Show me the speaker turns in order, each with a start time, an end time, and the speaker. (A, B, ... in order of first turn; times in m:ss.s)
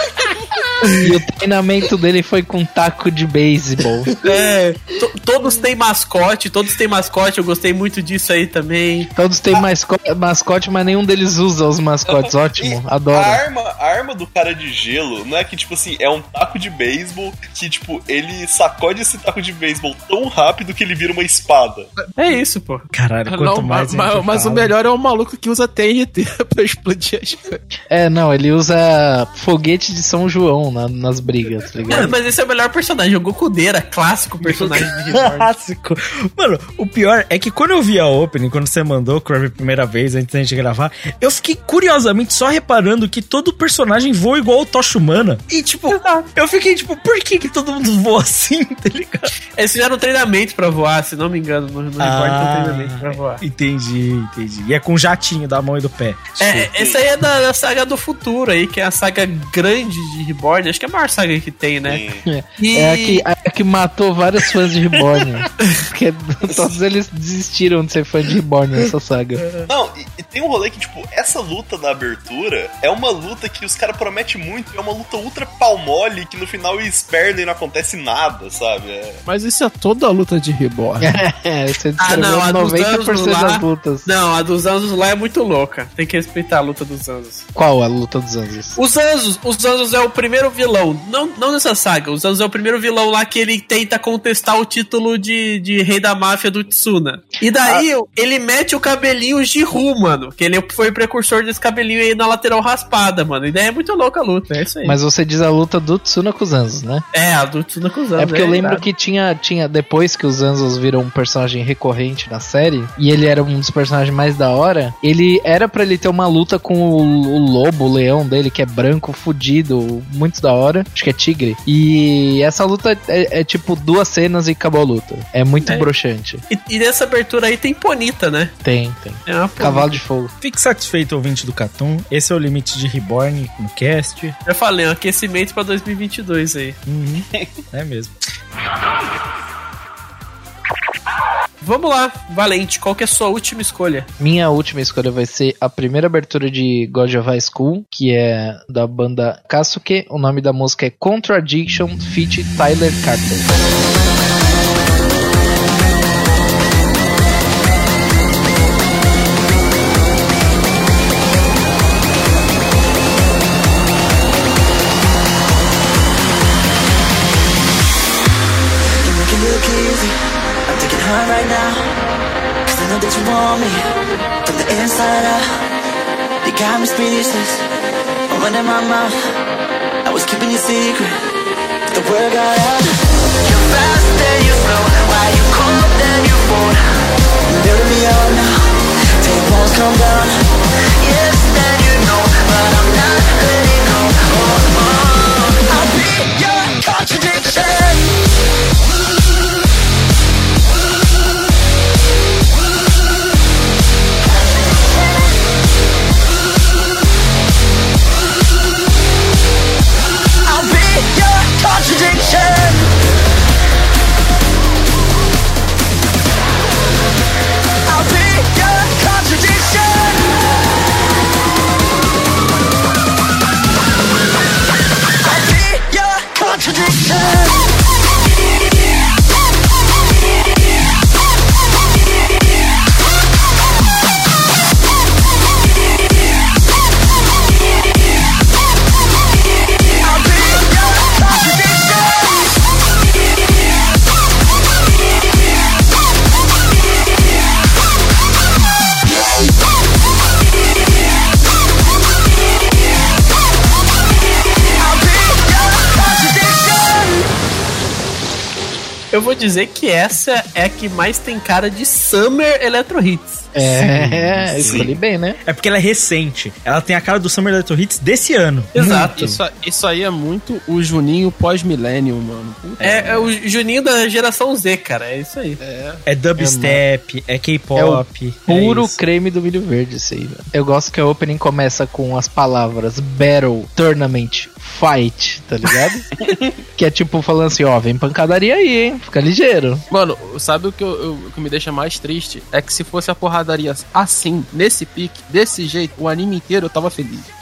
0:01.0-0:04.1 A
0:04.2-0:09.1 B
0:09.2-0:13.4 A
0:12.1-0:21.9 C
0:22.2-0:22.9 B
0:22.9-0:24.7 D
0:23.3-0:27.6 E
0:27.9-0:32.1 A
0:31.9-0:35.5 B
0:34.4-0:49.3 D
0:45.9-0:46.3 B
0:49.6-0:53.4 B
0:52.0-0:56.6 D
0:56.4-1:02.0 B
0:56.7-0:57.0 C
1:01.9-1:02.2 C
1:02.3-1:09.5 A
1:02.6-1:03.2 B
1:09.7-1:19.2 C
1:19.3-1:21.1 E
1:21.0-1:24.1 A
1:22.0-1:27.5 B
1:27.6-1:28.8 A
1:28.8-1:45.0 B
1:44.8-1:47.0 A
1:47.1-1:48.9 B
1:48.2-2:06.4 A
2:05.6-2:05.9 B
2:06.5-2:08.5 B
2:08.6-2:10.3 A
2:09.3-2:10.0 B
2:10.4-2:14.4 D
2:14.4-2:16.8 B
2:16.9-2:18.2 D
2:21.6-2:24.1 B
2:24.2-2:33.5 A
2:49.0-2:50.2 F
2:50.7-2:51.9 F
2:52.7-2:53.9 F
2:54.4-2:55.5 F
2:56.4-2:57.6 F
2:58.3-2:59.1 F
3:00.0-3:01.2 F
3:01.9-3:06.8 F
3:07.6-3:08.6 F
3:09.2-3:10.4 F
3:11.0-3:18.1 F
3:30.4-3:32.9 F
3:37.9-3:40.3 F
3:45.2-3:47.7 F
4:00.0-4:02.4 F
4:14.8-4:17.3 F
4:19.1-4:23.5 B
4:23.6-4:25.4 A
4:23.6-4:24.9 D
4:24.6-4:25.0 C
4:25.4-4:29.4 D
4:28.7-4:29.2 B
4:29.1-4:33.2 E
4:32.8-4:33.3 D
4:32.8-4:35.6 B
4:35.6-4:36.0 E
4:36.1-4:39.0 D
4:36.4-4:36.8 A
4:37.8-4:46.1 A
4:46.2-4:46.6 C
4:46.8-4:49.8 A
4:49.9-4:57.3 E